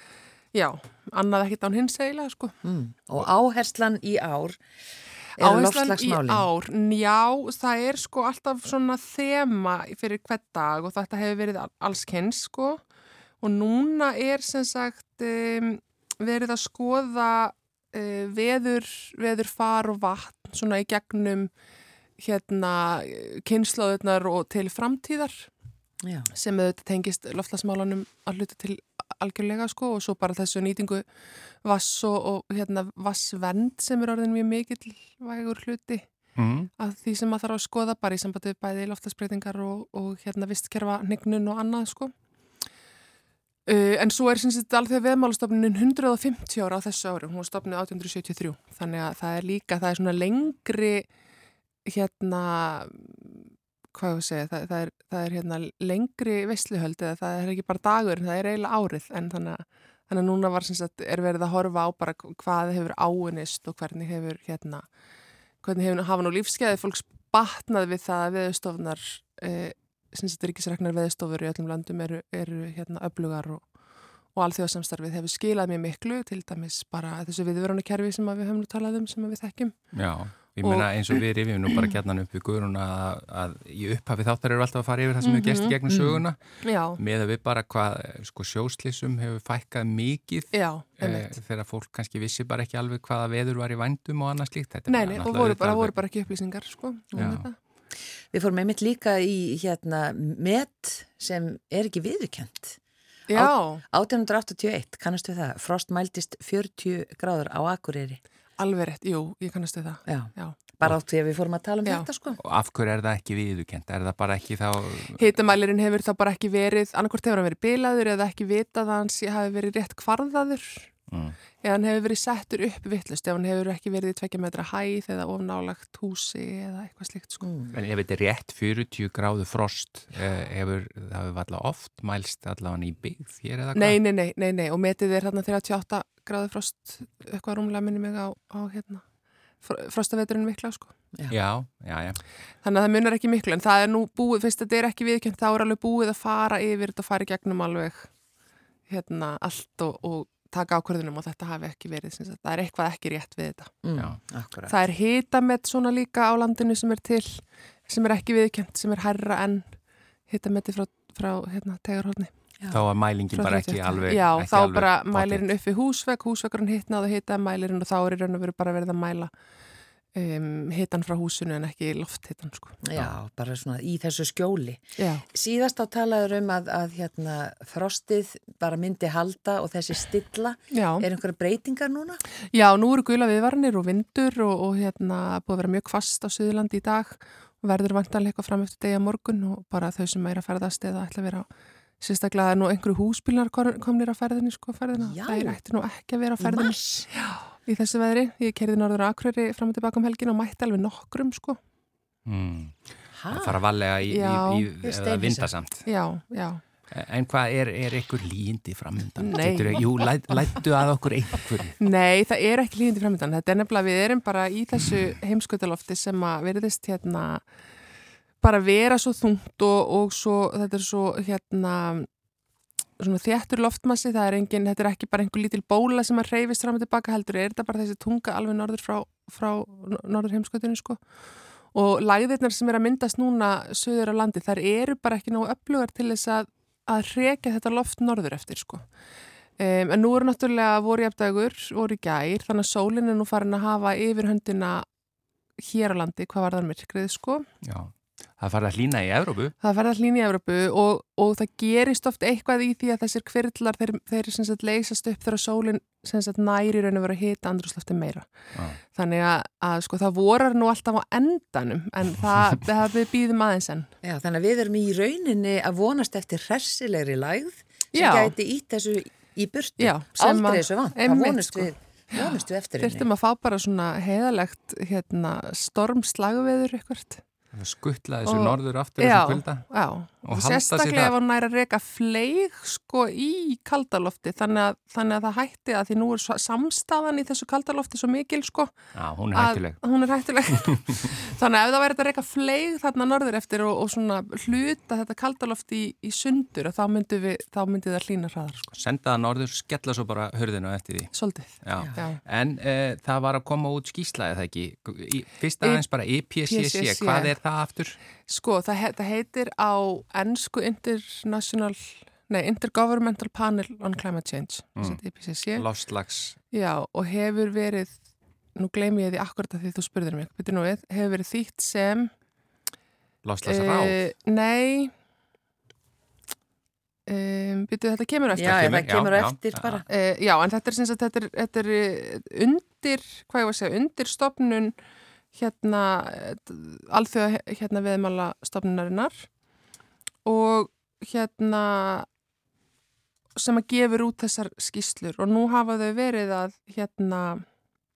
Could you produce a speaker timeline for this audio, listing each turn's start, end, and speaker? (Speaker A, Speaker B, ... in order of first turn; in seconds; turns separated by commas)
Speaker A: 0.5-2.5, Speaker B: 2.6-4.6, Speaker B: 5.4-6.5, Speaker A: 5.4-12.8, Speaker A: 13.4-21.5, Speaker A: 22.2-25.5, Speaker B: 26.0-26.3, Speaker A: 26.3-31.1, Speaker A: 31.6-36.3, Speaker C: 36.4-36.7, Speaker A: 36.8-42.1, Speaker A: 43.6-51.1, Speaker A: 51.8-53.3, Speaker A: 53.9-64.9, Speaker A: 65.6-73.7, Speaker A: 74.2-79.9, Speaker C: 79.9-96.0, Speaker A: 80.6-81.2, Speaker A: 85.2-85.8, Speaker B: 85.9-86.2, Speaker A: 86.6-87.0, Speaker A: 90.5-91.4, Speaker A: 94.9-97.5, Speaker C: 97.2-97.5, Speaker B: 98.3-102.8, Speaker A: 103.3-103.8, Speaker B: 103.3-108.2, Speaker A: 108.6-110.5, Speaker B: 110.1-112.4, Speaker C: 112.4-115.2, Speaker A: 115.2-120.9, Speaker C: 121.1-121.4, Speaker A: 121.6-127.4, Speaker B: 127.4-127.7, Speaker C: 127.7-134.0, Speaker A: 133.7-139.1, Speaker A: 139.6-140.9, Speaker C: 141.3-142.2, Speaker A: 142.6-148.1, Speaker A: 148.9-153.7, Speaker B: 153.8-154.7, Speaker A: 154.7-162.3, Speaker C: 162.7-165.5, Speaker A: 163.3-169.3, Speaker A: 170.1-172.8, Speaker B: 172.8-182.2, Speaker A: 175.0-175.2, Speaker A: 180.7-181.0, Speaker A: 182.5-191.5, Speaker A: 192.0-201.6, Speaker B: 195.0-195.6, Speaker B: 196.4-197.1, Speaker C: 202.2-205.8, Speaker B: 203.1-203.6, Speaker A: 204.1-204.7, Speaker B: 204.8-205.5, Speaker A: 205.9-206.6, Speaker C: 206.9-211.8, Speaker A: 209.2-209.9, Speaker A: 211.8-217.4, Speaker A: 218.4-222.1, Speaker A: 223.0-231.0, Speaker A: 231.7-238.9, Speaker A: 239.6-244.8, Speaker A: 245.6-247.4, Speaker C: 247.6-249.5, Speaker A: 249.6-258.3, Speaker A: 258.8-263.9, Speaker B: 264.0-273.1, Speaker A: 267.9-268.3, Speaker A: 269.8-277.2, Speaker C: 277.5-279.7, Speaker A: 278.2-288.7, Speaker C: 280.2-281.1, Speaker C: 288.9-289.8, Speaker A: 289.3-298.7, Speaker C: 290.7-291.0, Speaker C: 298.7-301.1, Speaker A: 301.1-302.2, Speaker C: 301.6-308.0, Speaker A: 306.4-307.3, Speaker A: 308.3-315.6, Speaker C: 315.5-316.4, Speaker A: 316.5-318.0, Speaker A: 318.5-322.1, Speaker C: 323.2-324.0, Speaker A: 323.4-324.9, Speaker A: 327.1-328.8, Speaker B: 328.3-329.8, Speaker C: 328.4-329.8, Speaker A: 329.9-334.7, Speaker A: 335.3-339.3, Speaker A: 340.2-342.1, Speaker A: 343.4-347.4